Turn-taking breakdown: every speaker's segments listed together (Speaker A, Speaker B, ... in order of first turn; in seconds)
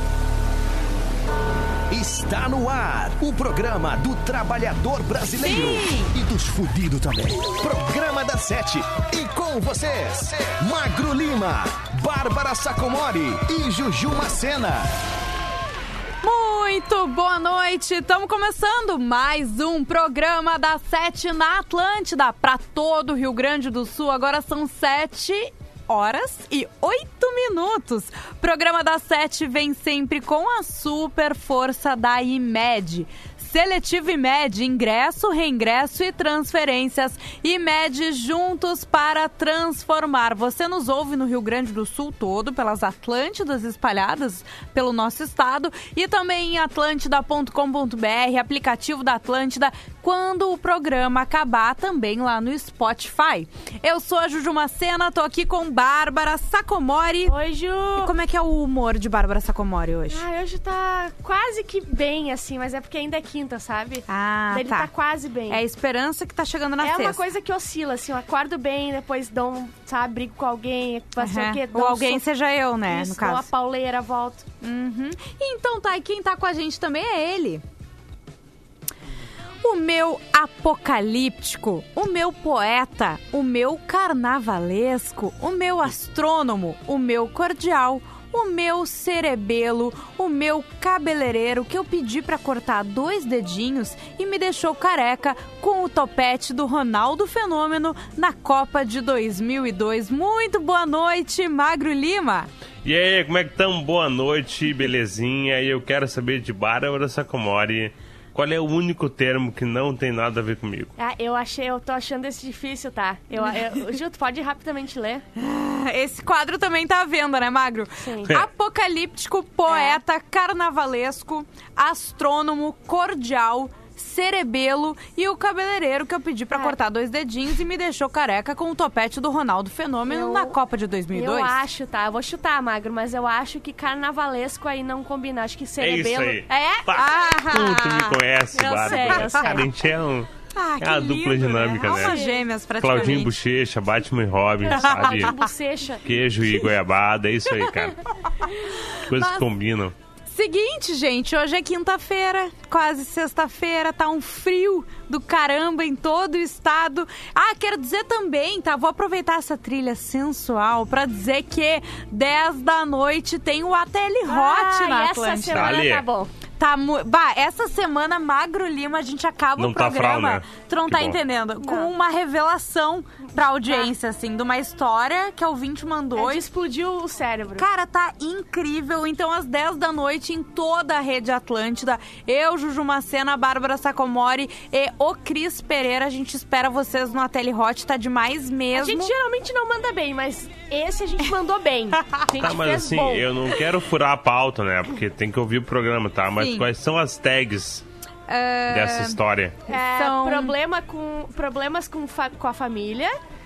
Speaker A: 1.9-14.9
Speaker B: 5.4-6.1, 16.2-57.4, 58.0-60.2, 64.1-64.9, 65.5-67.2, 71.2-73.5, 74.6-77.6, 79.6-102.5, 115.4-131.6, 137.0-138.1, 140.6-143.3, 150.3-165.8, 166.6-176.4, 177.6-189.1, 196.4-196.7, 198.3-200.6
Speaker C: 57.3-58.1, 60.1-65.6, 66.8-72.2, 72.9-74.5, 111.0-115.2, 118.0-118.3, 119.7-120.0, 130.1-130.5, 131.1-137.2, 138.6-139.7, 141.8-142.4, 144.7-146.0, 164.3-166.3, 171.6-171.9, 176.2-177.6, 188.8-193.3, 199.7-203.2
Speaker D: 102.8-110.9, 135.8-140.3, 140.8-142.2, 142.8-145.4, 146.1-148.0, 149.1-149.9, 165.5-166.1, 169.6-171.2, 192.4-197.8, 198.7-199.6